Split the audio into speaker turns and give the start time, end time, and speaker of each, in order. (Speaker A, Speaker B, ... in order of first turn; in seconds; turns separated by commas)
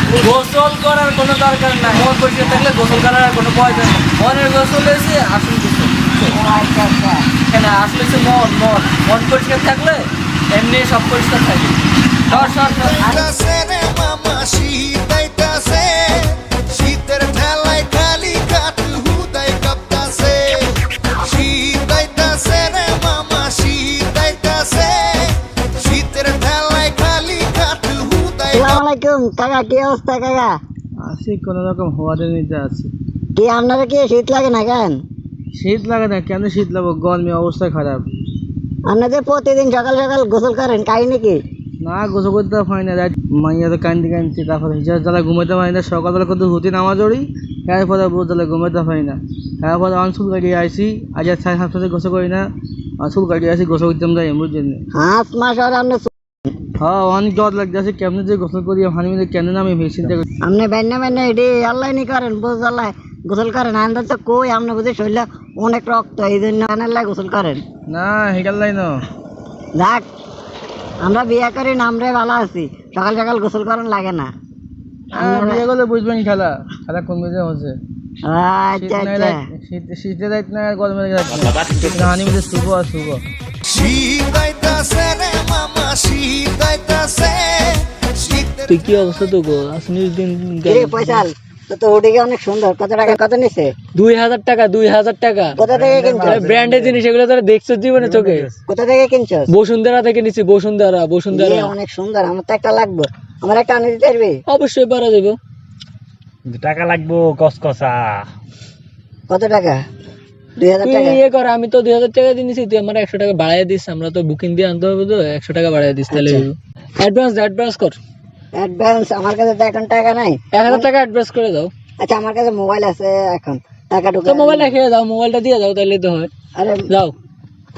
Speaker A: 0.1-6.3, Speaker B: 6.3-7.2, Speaker A: 7.5-13.2, Speaker C: 12.3-28.8, Speaker B: 28.5-30.5, Speaker D: 31.0-32.9, Speaker B: 33.4-35.0, Speaker D: 35.5-38.0, Speaker B: 38.9-41.4, Speaker D: 41.8-52.5, Speaker D: 53.0-54.8, Speaker B: 55.0-56.1, Speaker D: 56.8-60.2, Speaker B: 60.4-67.6, Speaker D: 67.9-69.0, Speaker B: 69.8-70.0, Speaker B: 71.0-74.3, Speaker B: 75.1-75.7, Speaker D: 75.1-77.8, Speaker B: 78.2-79.4, Speaker D: 78.8-83.2, Speaker C: 83.7-88.7, Speaker A: 88.7-91.2, Speaker B: 90.7-93.7, Speaker A: 94.0-95.6, Speaker B: 95.6-96.8, Speaker E: 95.6-96.9, Speaker A: 96.2-98.5, Speaker E: 98.0-98.5, Speaker B: 98.7-99.5, Speaker A: 99.5-101.7, Speaker B: 101.3-104.4, Speaker A: 104.5-105.4, Speaker E: 106.5-108.2, Speaker B: 109.3-109.8, Speaker B: 110.6-111.2, Speaker A: 110.8-118.0, Speaker B: 116.1-116.5, Speaker B: 118.5-120.9, Speaker A: 120.5-121.7, Speaker B: 122.0-124.8, Speaker A: 124.2-126.3, Speaker B: 126.6-126.8